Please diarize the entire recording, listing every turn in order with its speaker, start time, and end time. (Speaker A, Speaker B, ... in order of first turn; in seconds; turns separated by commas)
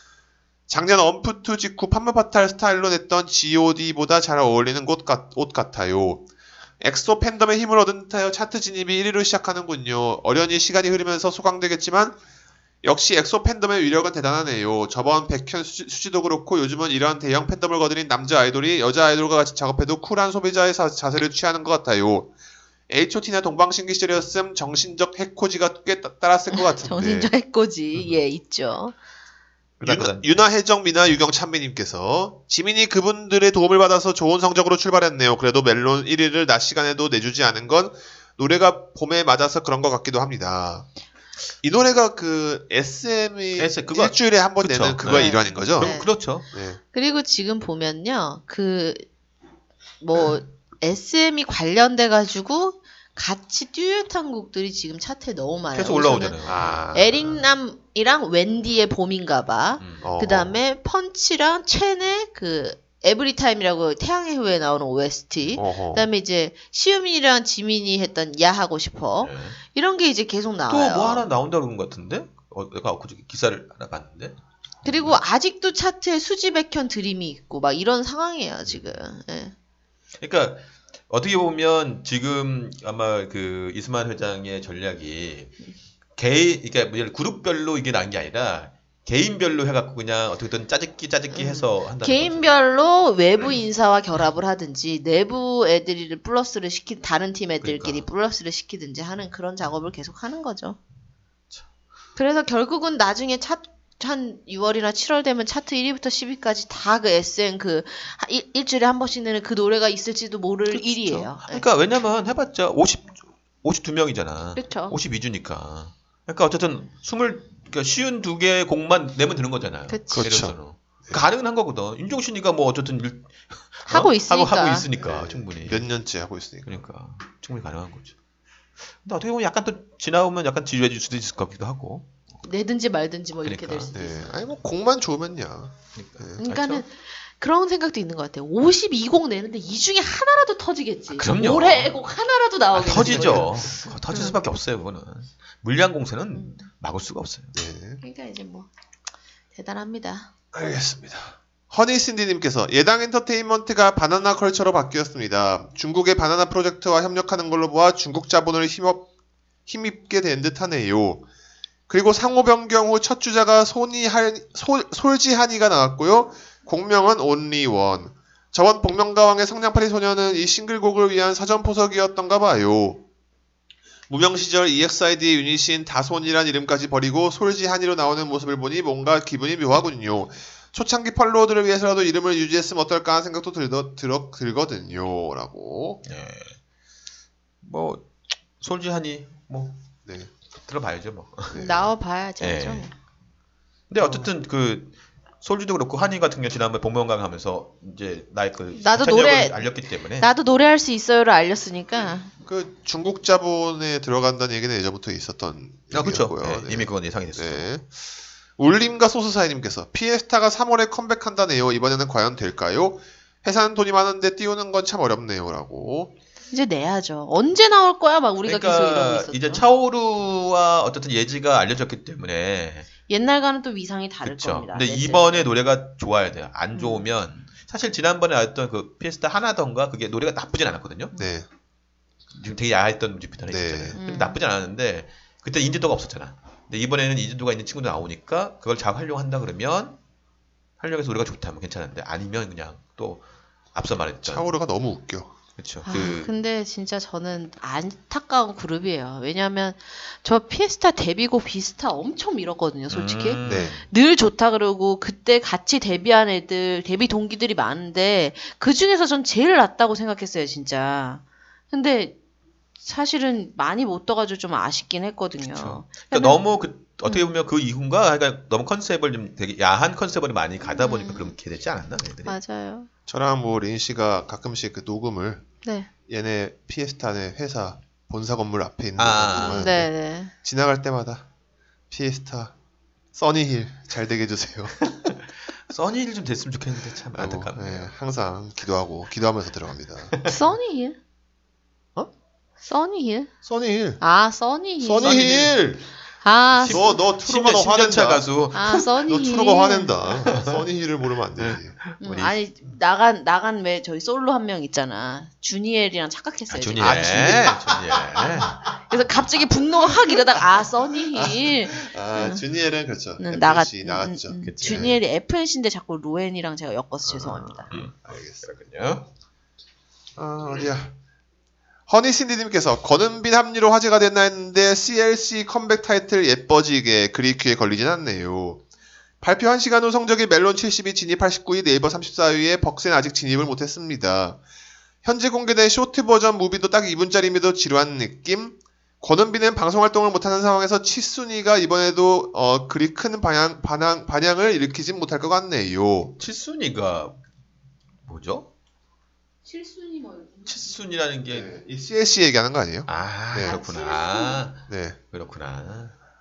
Speaker A: 0.7-6.2, Speaker A: 6.8-12.2, Speaker A: 12.8-22.3, Speaker A: 22.9-27.3, Speaker B: 26.5-28.9, Speaker C: 29.8-30.4, Speaker A: 29.8-40.9, Speaker A: 41.6-46.0, Speaker C: 43.5-46.5, Speaker B: 45.1-46.1, Speaker A: 46.5-46.8, Speaker B: 46.9-49.0, Speaker B: 50.0-56.4, Speaker C: 55.7-57.2, Speaker A: 56.4-57.2, Speaker B: 56.9-71.2, Speaker C: 59.8-60.1, Speaker A: 60.0-60.6, Speaker A: 65.5-66.1, Speaker C: 69.2-69.6, Speaker C: 70.7-75.2, Speaker B: 74.8-79.5, Speaker C: 80.2-85.5, Speaker C: 86.2-92.5, Speaker B: 91.3-100.8, Speaker C: 97.6-98.1, Speaker B: 102.2-111.6, Speaker C: 110.7-125.9, Speaker B: 114.5-115.0, Speaker B: 119.9-120.3, Speaker A: 120.1-120.5, Speaker B: 123.9-124.9, Speaker A: 125.0-126.8, Speaker C: 126.7-128.1, Speaker C: 129.0-132.1, Speaker B: 132.4-134.4, Speaker C: 133.4-133.9, Speaker A: 133.9-136.4, Speaker C: 135.9-136.8, Speaker B: 136.4-143.6, Speaker C: 141.1-142.0, Speaker C: 142.7-147.6, Speaker A: 143.0-143.7, Speaker B: 144.1-144.4, Speaker B: 146.3-146.6, Speaker A: 147.5-148.0, Speaker B: 148.0-148.7, Speaker B: 149.5-150.3, Speaker A: 150.5-159.1, Speaker A: 159.7-161.3, Speaker A: 161.9-173.0, Speaker A: 174.1-186.0, Speaker C: 186.0-186.6, Speaker C: 187.6-189.8, Speaker A: 190.0-190.3, Speaker C: 190.5-191.6, Speaker A: 191.5-191.9, Speaker B: 191.5-192.9, Speaker C: 192.4-192.9, Speaker C: 193.9-200.3, Speaker A: 194.0-194.3, Speaker B: 198.7-202.3, Speaker A: 202.4-207.8, Speaker C: 205.9-207.7, Speaker A: 208.6-216.1, Speaker B: 216.5-219.6, Speaker C: 218.4-222.9, Speaker B: 223.1-225.5, Speaker C: 224.2-231.1, Speaker B: 226.7-227.1, Speaker A: 231.2-231.5, Speaker C: 232.3-240.0, Speaker A: 233.5-234.0, Speaker B: 233.9-234.4, Speaker C: 240.8-243.2, Speaker C: 243.7-244.5, Speaker A: 244.2-245.3, Speaker C: 245.6-246.3, Speaker B: 245.8-262.1, Speaker C: 252.9-253.8, Speaker A: 253.4-253.7, Speaker B: 262.8-266.4, Speaker C: 265.4-272.4, Speaker B: 267.0-267.4, Speaker B: 270.7-271.3, Speaker B: 272.2-272.9, Speaker A: 273.1-275.4, Speaker B: 275.6-275.9, Speaker A: 276.1-279.9, Speaker C: 279.0-279.7, Speaker B: 279.4-280.3, Speaker A: 280.4-281.2, Speaker A: 281.9-282.5, Speaker A: 283.1-284.9, Speaker C: 285.0-287.9, Speaker A: 287.1-290.2, Speaker C: 290.1-290.4, Speaker B: 290.2-291.0, Speaker B: 292.6-293.3, Speaker A: 293.4-294.0, Speaker B: 294.0-295.2, Speaker A: 294.8-295.9, Speaker C: 295.0-295.6, Speaker B: 296.2-297.0, Speaker C: 296.5-298.9, Speaker A: 296.7-298.3, Speaker B: 298.5-300.0, Speaker A: 299.1-302.3, Speaker C: 300.2-300.6, Speaker C: 301.4-302.3, Speaker B: 302.0-307.6, Speaker C: 306.5-308.6, Speaker A: 307.1-307.4, Speaker B: 308.9-312.4, Speaker A: 311.1-315.0, Speaker B: 313.2-317.7, Speaker C: 314.4-315.0, Speaker A: 317.1-318.4, Speaker C: 317.7-319.1, Speaker A: 320.1-320.9, Speaker A: 321.9-328.6, Speaker A: 329.2-334.4, Speaker A: 335.0-346.1, Speaker C: 346.2-347.2, Speaker C: 348.0-348.5, Speaker B: 349.4-350.6, Speaker C: 350.4-351.5, Speaker A: 351.3-353.6, Speaker C: 352.9-355.9, Speaker B: 353.4-354.4, Speaker A: 354.7-355.0